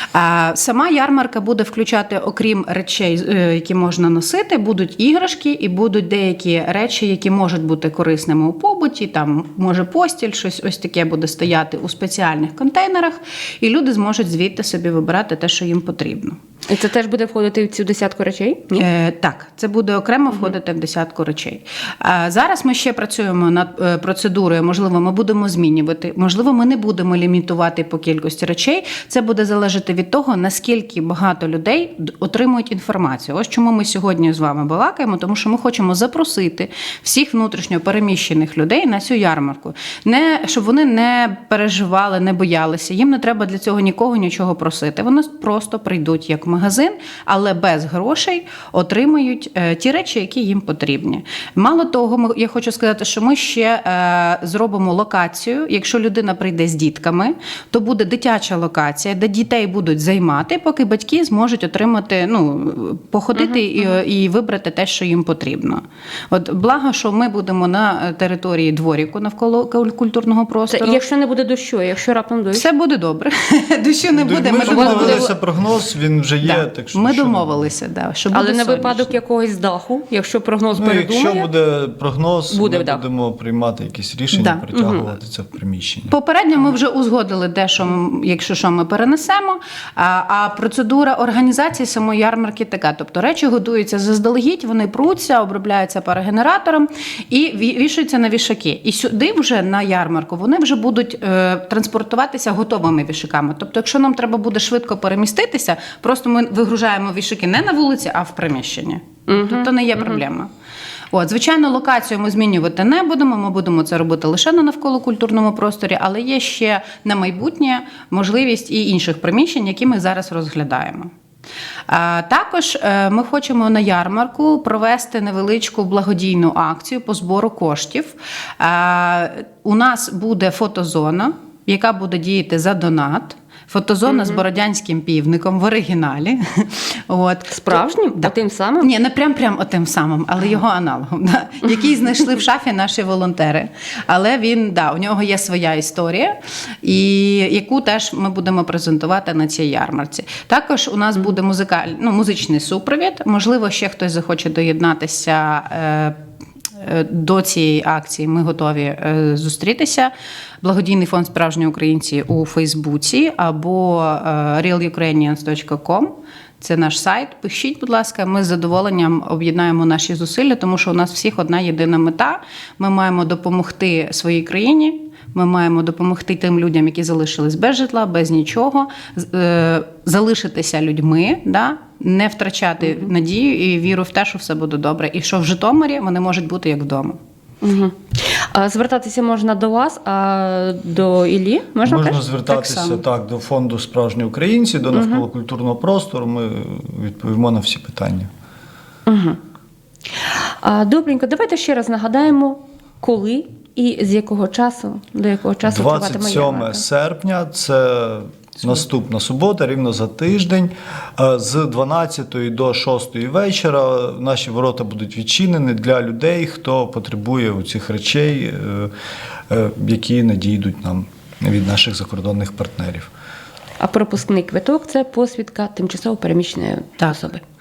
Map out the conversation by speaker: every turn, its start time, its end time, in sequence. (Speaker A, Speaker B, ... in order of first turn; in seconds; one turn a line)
Speaker A: 0.1-16.4
Speaker B: 16.7-18.8
Speaker A: 18.7-71.0
Speaker B: 70.7-72.7
Speaker A: 72.5-75.3
Speaker C: 74.1-77.6
Speaker B: 74.7-75.3
Speaker A: 76.4-79.2
Speaker B: 78.3-81.5
Speaker C: 80.8-86.1
Speaker B: 82.5-83.0
Speaker A: 84.3-84.6
Speaker B: 84.7-85.0
Speaker A: 86.1-110.5
Speaker B: 109.3-110.2
Speaker A: 111.1-121.1
Speaker A: 121.9-156.2
Speaker B: 134.1-134.4
Speaker B: 137.5-138.9
Speaker A: 156.8-187.2
Speaker B: 187.6-192.2
Speaker C: 191.8-198.3
Speaker A: 192.5-193.0
Speaker B: 194.9-195.2
Speaker B: 199.1-199.4
Speaker B: 200.3-206.8
Speaker C: 205.7-218.9
Speaker C: 219.5-223.1
Speaker B: 223.8-227.4